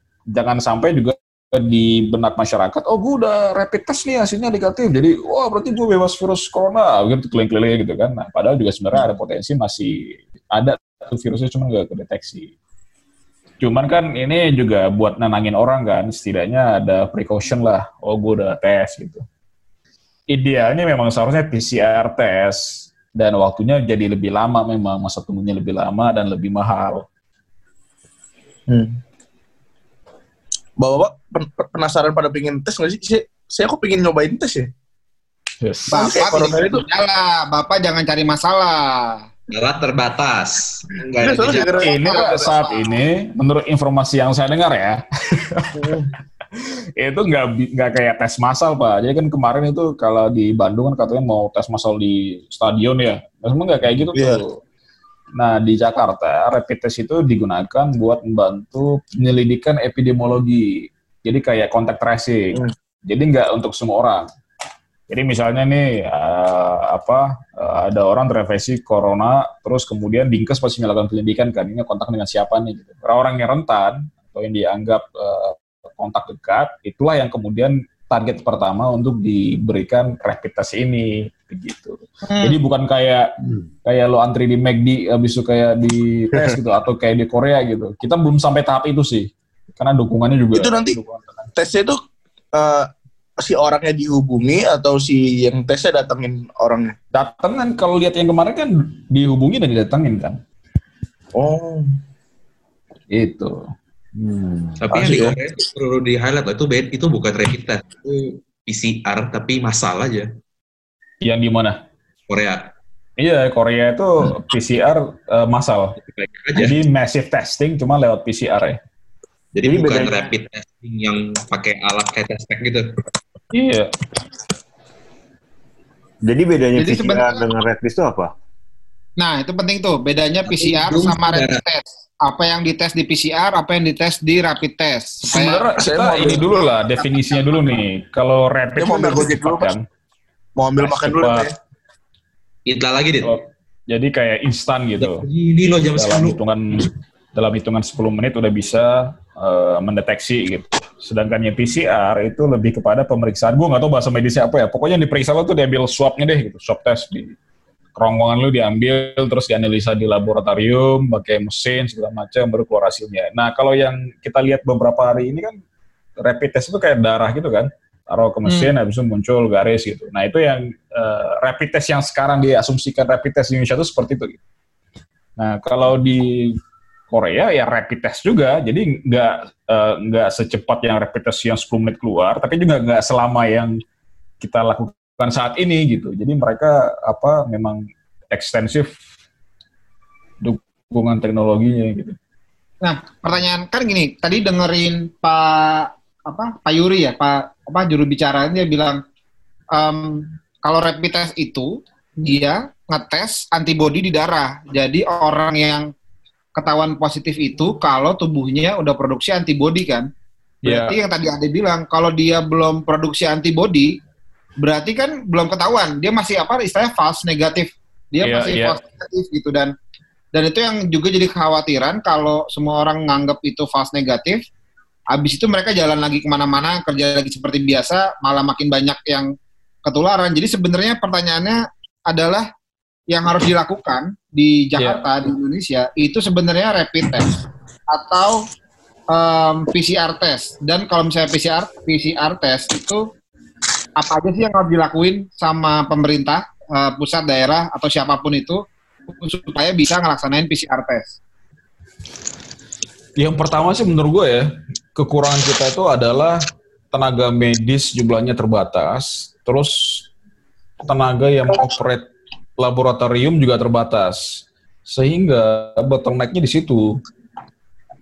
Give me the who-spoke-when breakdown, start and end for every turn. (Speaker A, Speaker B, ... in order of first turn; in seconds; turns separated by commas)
Speaker A: 0.3-12.5, Speaker A: 13.6-19.2, Speaker A: 20.3-27.1, Speaker B: 28.7-29.0, Speaker B: 30.8-34.7, Speaker A: 35.6-36.1, Speaker C: 35.9-39.2, Speaker B: 35.9-36.9, Speaker D: 39.5-41.9, Speaker B: 41.2-42.5, Speaker A: 41.8-54.6, Speaker C: 41.8-42.9, Speaker B: 45.7-46.1, Speaker B: 54.1-54.4, Speaker A: 55.4-64.3, Speaker A: 65.1-83.3, Speaker C: 82.2-82.6, Speaker A: 83.8-91.5, Speaker B: 90.5-91.0, Speaker B: 91.6-92.0, Speaker B: 92.5-92.9, Speaker B: 93.4-96.9, Speaker A: 97.1-100.4, Speaker B: 101.3-101.9, Speaker A: 103.1-103.7, Speaker E: 104.2-104.8, Speaker D: 104.8-110.3, Speaker B: 104.9-105.4, Speaker A: 111.2-111.8, Speaker D: 112.3-112.7, Speaker A: 113.2-116.0, Speaker D: 116.1-116.8, Speaker A: 116.5-118.8, Speaker D: 119.5-122.9, Speaker E: 119.6-120.3, Speaker A: 123.5-123.9, Speaker E: 126.2-128.3, Speaker C: 126.8-127.4, Speaker C: 129.2-137.4, Speaker D: 130.5-131.6, Speaker A: 135.3-139.9, Speaker B: 135.8-136.6, Speaker B: 138.8-139.7, Speaker B: 140.6-141.5, Speaker A: 140.8-141.5, Speaker D: 142.7-143.3, Speaker A: 143.2-145.3, Speaker D: 145.0-146.4, Speaker A: 145.9-157.3, Speaker A: 157.9-165.6, Speaker A: 166.2-174.4, Speaker C: 168.4-168.7, Speaker A: 175.4-176.6, Speaker A: 177.1-183.8, Speaker A: 184.4-189.0, Speaker A: 190.4-192.2, Speaker C: 192.8-199.0, Speaker C: 199.7-201.7, Speaker C: 202.2-205.9, Speaker C: 206.6-210.1, Speaker A: 210.6-210.9, Speaker C: 210.6-213.9, Speaker C: 214.6-219.7, Speaker A: 218.2-218.8, Speaker C: 220.3-224.4, Speaker C: 225.1-229.3, Speaker C: 229.9-232.4, Speaker C: 233.1-237.3, Speaker A: 234.8-235.1, Speaker C: 237.9-238.4, Speaker C: 239.1-243.1, Speaker C: 244.0-248.6, Speaker C: 249.2-251.1, Speaker A: 253.2-260.1, Speaker A: 260.8-262.1, Speaker A: 262.6-264.2, Speaker A: 264.9-267.0